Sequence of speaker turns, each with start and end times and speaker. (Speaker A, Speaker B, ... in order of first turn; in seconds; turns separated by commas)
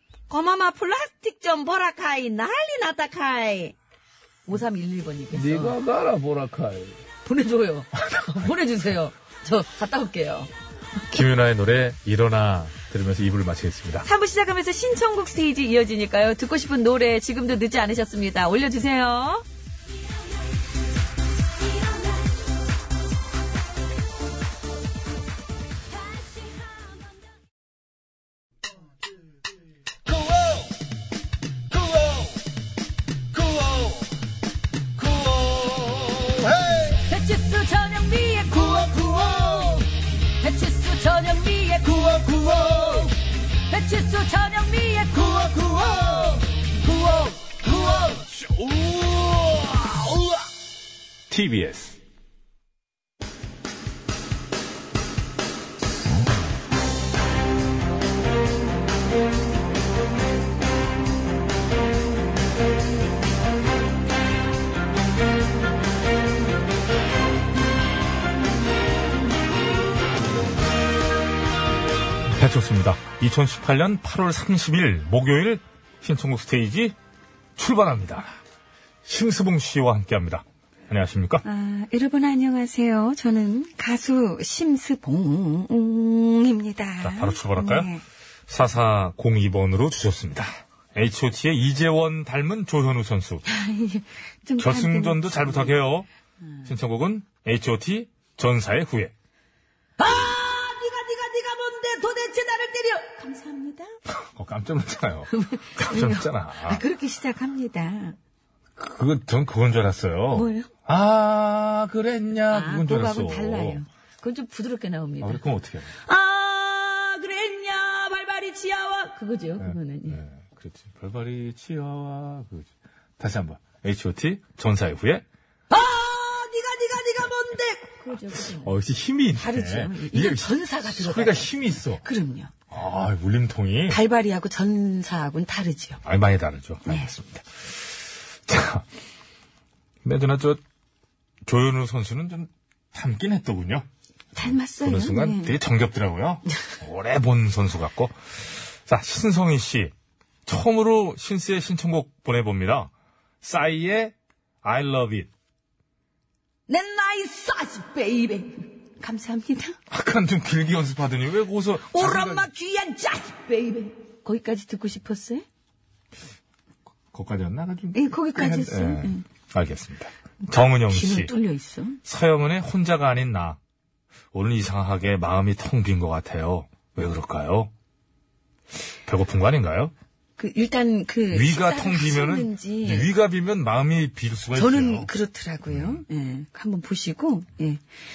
Speaker A: 0.3-3.8, Speaker A: 4.5-5.8, Speaker B: 5.3-7.0, Speaker A: 7.2-10.5, Speaker B: 11.1-14.1, Speaker A: 14.1-19.4, Speaker A: 36.9-43.2, Speaker A: 43.7-48.3, Speaker B: 48.4-49.6, Speaker B: 51.3-52.0, Speaker B: 72.3-77.0, Speaker B: 77.6-78.4, Speaker B: 79.0-81.4, Speaker A: 81.4-88.0, Speaker B: 87.0-87.9, Speaker B: 88.5-93.4, Speaker A: 93.5-95.7, Speaker B: 94.6-96.1, Speaker B: 96.7-99.1, Speaker A: 100.0-103.9, Speaker B: 104.1-106.8, Speaker A: 105.3-108.2, Speaker B: 108.8-113.8, Speaker A: 110.3-110.7, Speaker A: 112.5-115.4, Speaker B: 115.2-115.9, Speaker A: 116.0-120.2, Speaker B: 119.6-125.2, Speaker A: 125.7-128.7, Speaker B: 128.6-132.0, Speaker A: 129.4-132.5, Speaker B: 132.7-134.0, Speaker A: 133.9-136.0, Speaker B: 136.0-137.9, Speaker B: 138.5-138.8, Speaker B: 140.0-140.6, Speaker B: 141.4-143.9, Speaker A: 144.3-145.6, Speaker B: 144.4-149.9, Speaker B: 150.5-152.9, Speaker B: 153.4-155.3, Speaker A: 156.7-159.8, Speaker B: 159.9-162.5, Speaker A: 161.9-165.4, Speaker B: 167.1-171.3, Speaker A: 167.9-169.2, Speaker A: 170.9-172.0, Speaker B: 172.1-173.6, Speaker B: 174.3-177.7, Speaker B: 179.1-179.9, Speaker A: 180.4-183.1, Speaker B: 181.3-185.1, Speaker A: 184.6-187.8, Speaker B: 185.7-186.0